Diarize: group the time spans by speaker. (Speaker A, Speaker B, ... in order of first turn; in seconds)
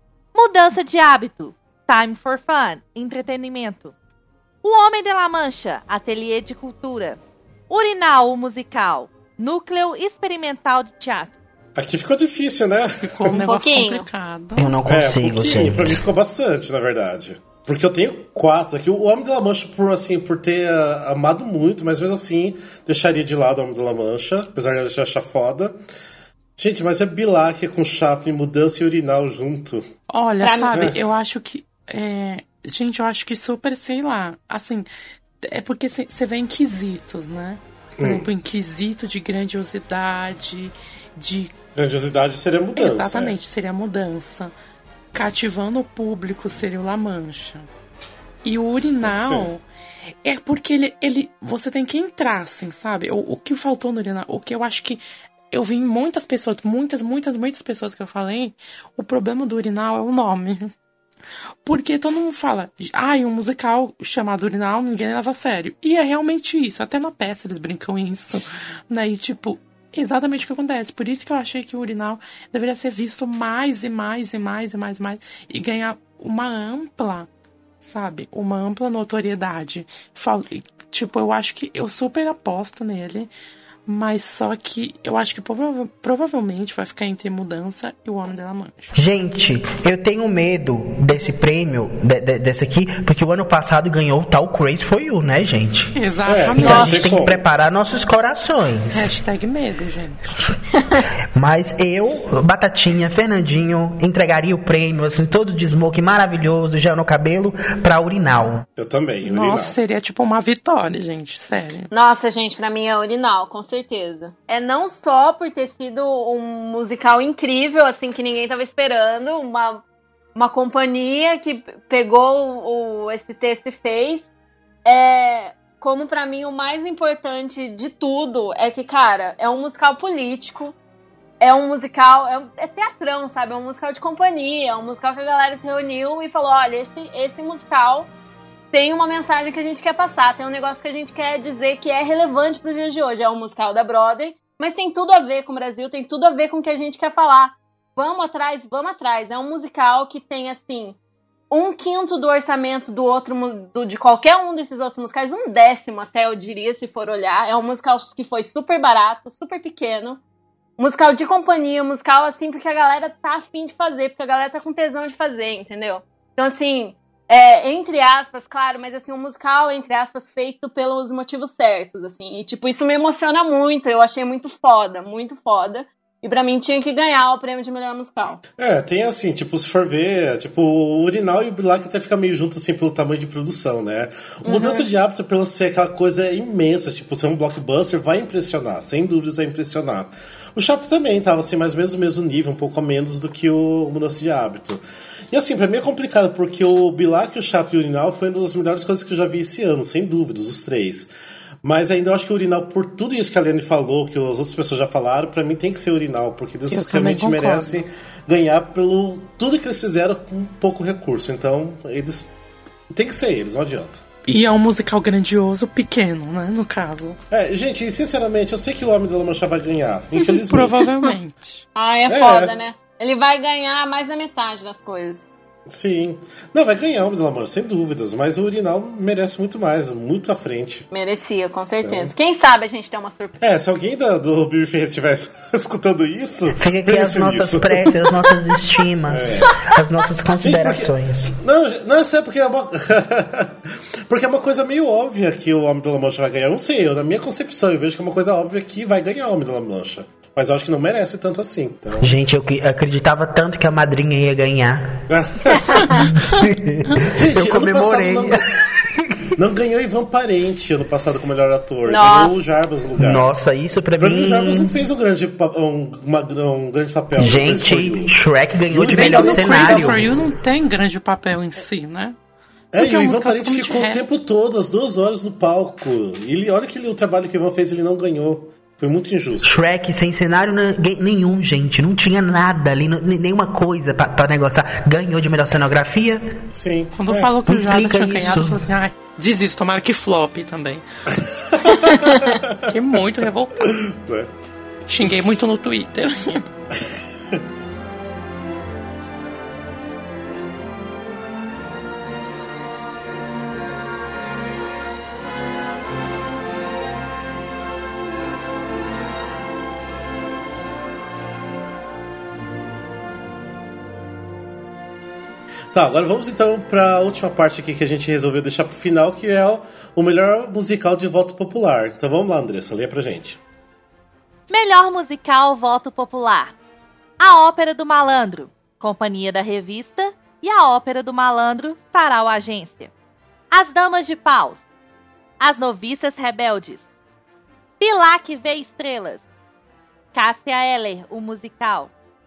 Speaker A: 0.3-3.9, 4.6-11.3, 324.5-326.5, 327.2-332.9, 333.5-334.6, 335.4-336.8, 337.8-339.2, 340.1-341.9
Speaker B: 11.8-13.4, 14.8-25.8, 26.6-29.9, 38.0-38.2, 41.7-43.3, 49.0-49.5, 96.3-97.4, 108.8-109.7, 178.6-201.1, 201.6-212.3, 212.9-214.0, 217.3-220.9, 222.1-222.5, 225.7-230.9, 231.8-232.1, 233.4-237.9, 239.1-239.5, 240.4-243.6, 244.1-252.1, 255.1-256.1, 257.0-258.4, 259.3-263.3, 264.0-268.1, 268.7-270.2, 272.7-279.5, 286.5-287.3, 291.4-292.5, 293.7-294.3, 315.7-323.4
Speaker C: 13.1-14.7, 30.1-34.9, 35.4-41.5, 42.8-44.5, 45.1-47.7, 48.4-49.6, 50.2-60.7, 61.6-77.3, 77.8-83.3, 83.9-88.9, 96.0-97.2, 98.9-100.5, 109.2-111.9, 206.7-207.8, 214.2-217.2, 220.4-221.6, 268.9-272.1, 272.8-274.0, 286.9-290.8, 292.6-293.7, 294.9-296.4
Speaker D: 13.4-14.1, 30.4-30.8, 100.8-101.0, 111.9-119.8, 120.3-124.3, 124.8-130.7, 131.4-138.1, 138.7-151.0, 151.5-160.2, 160.8-178.4, 184.4-184.8, 221.7-225.3, 230.9-233.4, 239.4-239.7, 255.6-256.0, 261.8-262.4, 291.8-292.3
Speaker E: 14.6-16.0, 88.9-95.9, 96.6-99.1, 101.3-108.6, 236.6-241.3, 252.0-255.0, 255.9-259.3, 263.0-264.8, 267.1-270.0, 279.4-286.2, 287.5-288.6